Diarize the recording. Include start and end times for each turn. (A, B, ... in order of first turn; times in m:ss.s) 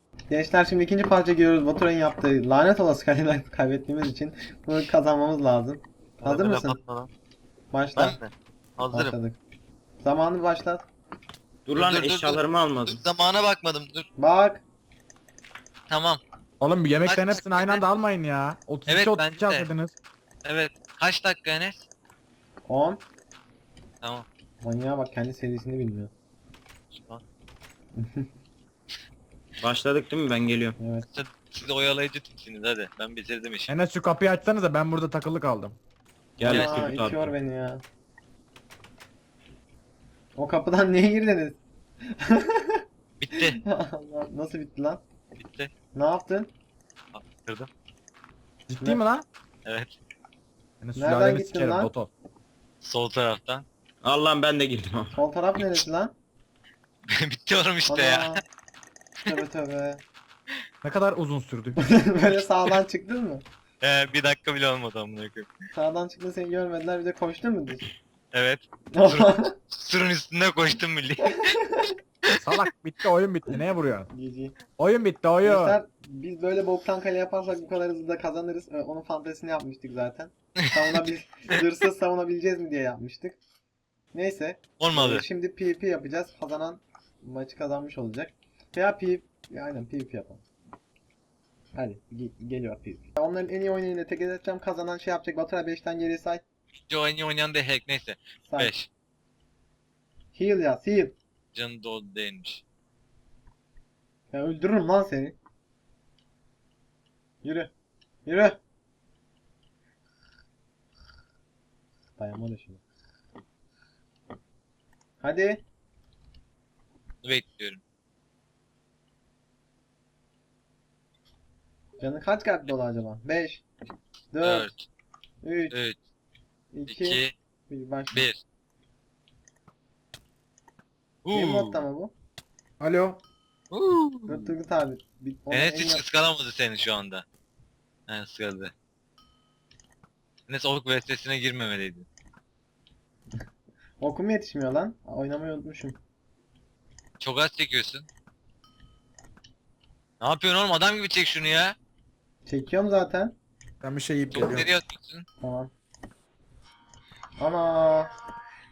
0:00.3-0:06.8 A
0:06.2-0:07.1 B
0:07.7-0:08.2 A
0:08.0-0:09.1 B
0:08.9-0:09.4 A
0:10.0-0:10.8 A
0:11.6-0:13.0 C
0:11.8-0:14.1 B
0:14.2-0:14.6 A
0:15.9-0:16.2 B
0:16.6-0:19.9 D
0:17.0-0:17.8 B
0:18.9-0:19.7 B
0:20.4-0:21.9 B
0:22.7-0:23.0 A
0:24.6-0:26.1 A
0:26.9-0:27.2 B
0:28.0-0:28.2 A
0:29.6-0:30.8 C
0:30.8-0:31.1 A
0:31.1-0:33.7 B
0:33.7-0:35.8 D
0:36.4-0:37.3 C
0:36.4-0:36.9 B
0:36.4-0:37.8 A
0:40.4-0:42.8 A
0:43.2-0:43.6 B
0:43.3-0:45.0 A
0:45.4-0:45.7 B
0:45.9-0:46.5 A
0:47.1-0:47.7 B
0:48.7-0:49.2 D
0:49.6-0:49.9 B
0:50.8-0:52.1 D
0:51.0-0:51.9 A
0:52.8-0:53.6 B
0:54.0-0:55.1 C
0:55.1-0:56.1 A
0:57.1-0:58.4 B
0:57.9-0:58.4 A
0:59.2-1:00.0 A
1:00.8-1:01.8 D
1:01.8-1:03.4 A
1:03.8-1:05.5 B
1:05.7-1:07.8 A
1:08.3-1:11.5 B
1:08.9-1:09.5 A
1:11.2-1:11.9 A
1:12.3-1:12.6 B
1:12.4-1:14.1 D
1:14.1-1:14.6 A
1:14.8-1:15.8 D
1:15.4-1:23.4 A
1:24.1-1:30.4 A
1:24.8-1:25.2 B
1:31.8-1:36.4 A
1:36.8-1:38.9 B
1:38.5-1:38.7 A
1:40.3-1:41.2 A
1:41.5-1:42.6 B
1:44.3-1:45.4 A
1:47.4-1:47.7 A
1:48.2-1:48.6 A
1:52.2-1:52.8 A
1:55.2-1:55.6 A
1:57.2-1:57.8 B
2:02.0-2:03.6 A
2:04.3-2:04.7 A
2:04.4-2:04.8 B
2:05.4-2:05.8 A
2:05.7-2:06.0 B
2:06.7-2:08.2 A
2:06.9-2:07.3 B
2:08.1-2:08.4 B
2:11.2-2:11.8 B
2:11.3-2:12.1 A
2:12.8-2:13.2 D
2:13.7-2:14.5 B
2:14.3-2:16.0 A
2:15.5-2:17.2 B
2:18.1-2:18.7 B
2:20.5-2:22.0 B
2:24.0-2:26.0 A
2:27.2-2:28.0 B
2:30.2-2:31.7 B
2:32.4-2:33.3 A
2:33.8-2:34.7 D
2:34.3-2:35.2 B
2:35.4-2:35.7 A
2:37.4-2:38.1 A